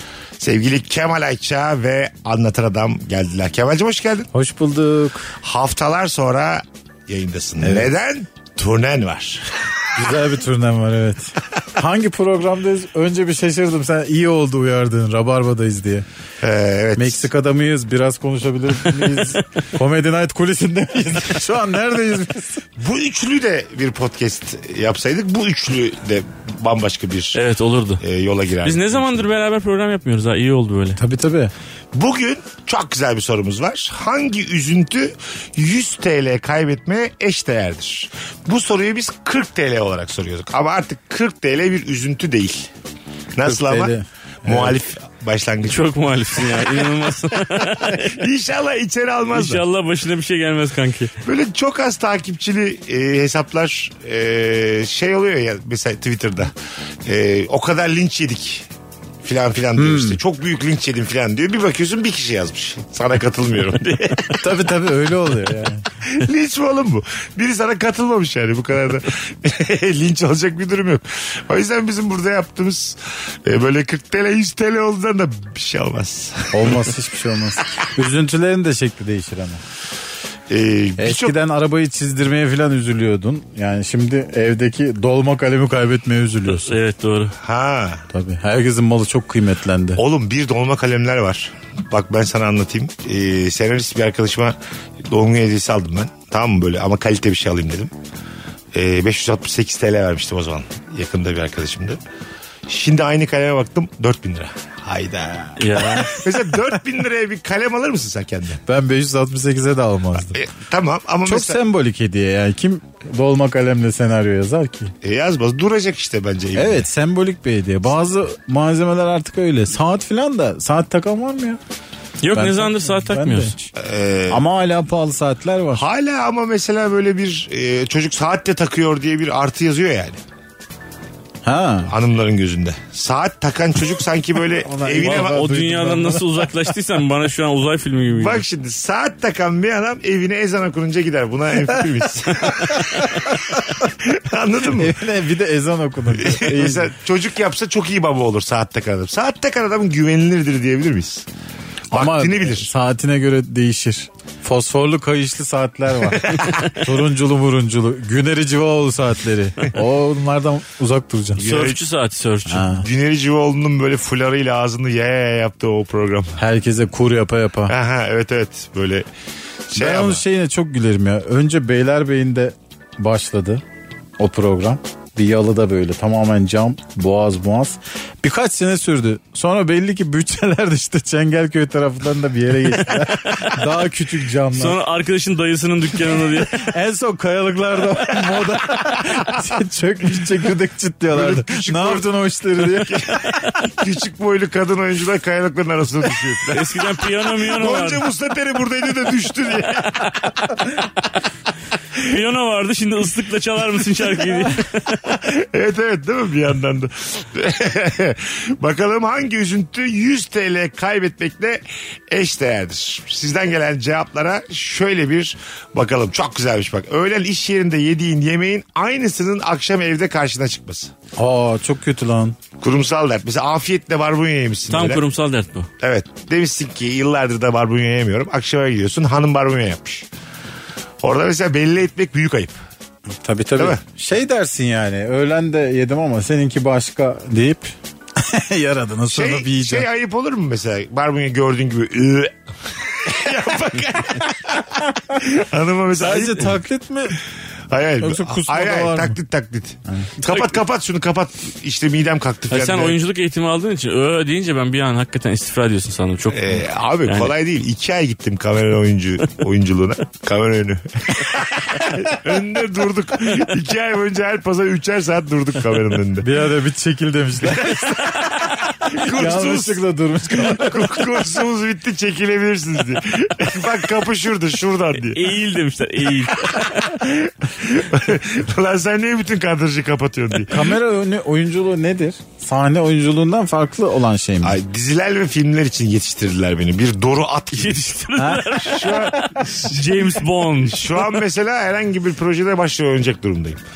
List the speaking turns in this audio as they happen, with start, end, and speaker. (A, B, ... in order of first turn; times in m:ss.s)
0:00.4-0:04.3 A
0:04.3-0:05.3 B
0:05.4-0:09.6 A
0:07.6-0:07.9 B
0:10.0-0:16.0 B
0:16.4-0:17.3 A
0:17.0-0:22.6 B
0:22.8-0:27.4 A
0:27.3-0:28.0 C
0:28.0-0:29.3 A
0:28.6-0:31.0 C
0:31.0-0:31.5 B
0:31.9-0:42.7 A
0:43.4-0:43.9 A
0:43.5-0:44.7 B
0:44.4-0:46.9 A
0:45.6-0:48.2 C
0:47.5-0:49.6 A
0:49.3-0:51.1 C
0:51.2-0:56.5 A
0:57.0-0:58.7 A
0:59.2-1:04.4 A
0:59.8-1:00.2 B
1:03.8-1:04.4 C
1:04.4-1:05.8 B
1:06.0-1:16.9 A
1:16.5-1:19.6 B
1:20.5-1:21.4 A
1:21.0-1:26.7 B
1:26.5-1:27.4 C
1:27.4-1:28.0 A
1:28.1-1:30.0 B
1:30.0-1:37.9 A
1:38.7-1:42.0 A
1:42.7-1:48.6 A
1:45.6-1:46.2 C
1:48.7-1:50.4 B
1:50.3-1:51.6 A
1:51.2-1:54.9 B
1:55.0-1:56.8 A
1:56.6-2:01.6 B
2:02.2-2:03.6 C
2:02.3-2:03.7 B
2:03.8-2:04.4 A
2:04.3-2:05.8 B
2:05.7-2:10.2 A
2:11.4-2:11.9 B
2:11.9-2:15.5 A
2:14.6-2:16.4 B
2:15.0-2:18.4 C
2:18.1-2:25.0 A
2:22.8-2:23.6 B
2:24.7-2:26.9 B
2:26.2-2:31.2 A
2:31.9-2:32.7 A
2:31.9-2:41.7 B
2:36.1-2:36.7 A
2:41.4-2:42.7 C
2:41.4-2:41.8 A
2:42.5-2:42.8 B
2:42.8-2:46.4 A
2:46.4-2:47.8 B
2:47.7-2:49.1 A
2:49.7-2:50.2 A
2:49.8-2:53.6 B
2:54.2-3:04.8 B
3:02.9-3:03.6 C
3:04.5-3:06.7 C
3:06.5-3:13.4 B
3:08.2-3:09.4 A
3:11.1-3:20.7 A
3:16.5-3:18.0 C
3:22.0-3:25.1 C
3:25.0-3:40.9 A
3:41.2-3:42.4 B
3:42.6-3:45.0 A
3:44.7-3:45.7 C
3:45.8-3:50.1 A
3:51.0-3:52.6 A
3:53.2-3:59.9 B
3:59.1-4:06.6 A
4:06.0-4:07.2 B
4:07.7-4:13.0 A
4:08.0-4:09.2 B
4:10.2-4:10.5 C
4:12.5-4:17.3 C
4:16.3-4:26.3 A
4:26.2-4:28.3 B
4:27.4-4:35.2 A
4:28.8-4:31.1 B
4:35.0-4:37.0 C
4:36.2-4:40.7 A
4:40.5-4:44.6 B
4:44.4-4:47.9 A
4:47.5-4:51.2 C
4:48.2-4:49.4 B
4:48.6-4:53.6 A